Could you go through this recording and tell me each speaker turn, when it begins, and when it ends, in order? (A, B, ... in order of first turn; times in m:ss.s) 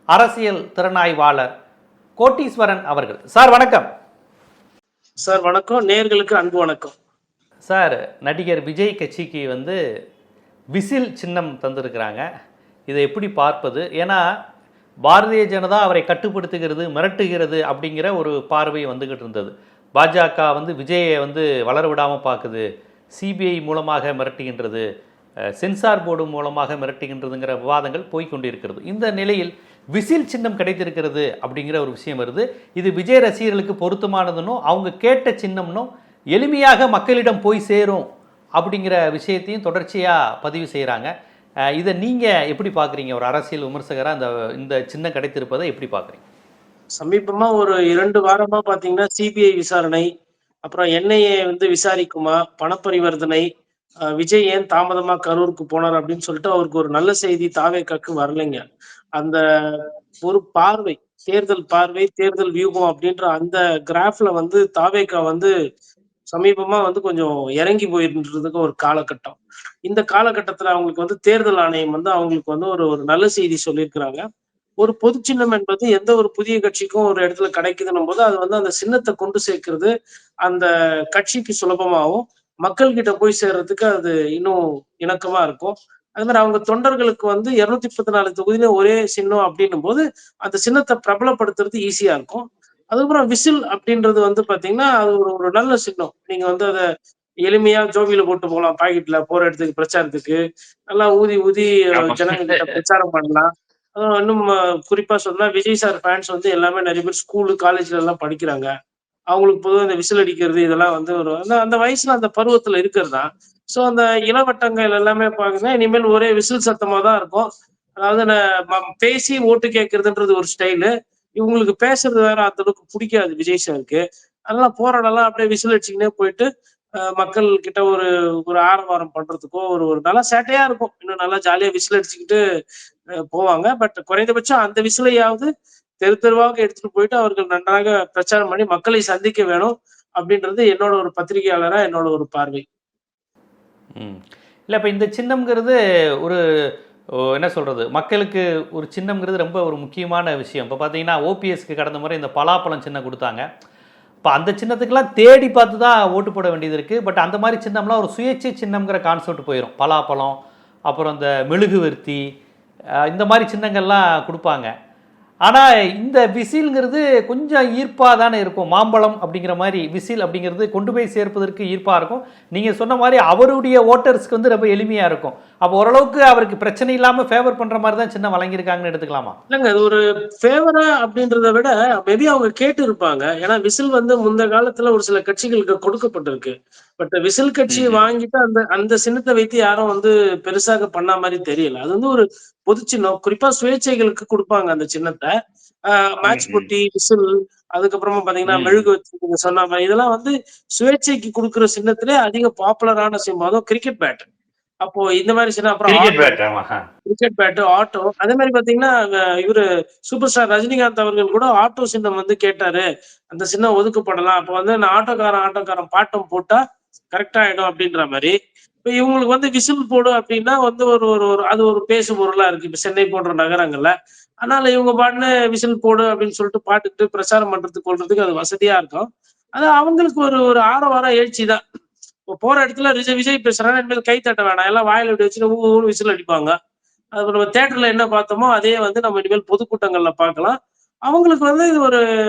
0:00.2-0:01.5 A
0:02.2-0:03.9 A
0:05.3-0:06.9 B
0:07.7-0:09.8 A
0:10.8-0:12.2 A
0:12.9-0:14.2 A
0:15.1-0:24.8 A
0:25.6-0:38.0 A
0:38.6-0:41.1 A
0:41.8-0:46.2 A
0:47.0-0:50.1 B
0:50.6-0:53.5 B
0:54.2-0:58.6 B
0:59.2-1:05.5 B
1:06.3-1:14.2 B
1:14.8-1:19.9 B
1:20.5-1:36.8 B
1:37.4-1:48.7 B
1:42.0-1:42.8 C
1:49.3-1:57.5 B
1:58.0-2:06.5 B
2:07.0-2:12.4 B
2:13.3-2:15.5 B
2:16.0-2:22.6 B
2:24.0-2:26.4 A
2:27.4-2:33.5 A
2:34.3-2:42.2 A
2:43.1-2:44.7 A
2:45.5-2:59.4 A
2:59.5-3:15.3 B
3:07.7-3:08.1 C
3:15.9-3:24.3 B
3:16.3-3:16.7 C
3:18.5-3:18.9 C
3:24.8-3:26.4 B
3:25.9-3:26.8 C
3:27.1-3:36.6 B
3:37.1-3:51.6 B
3:52.3-3:56.5 B
3:57.2-4:02.0 B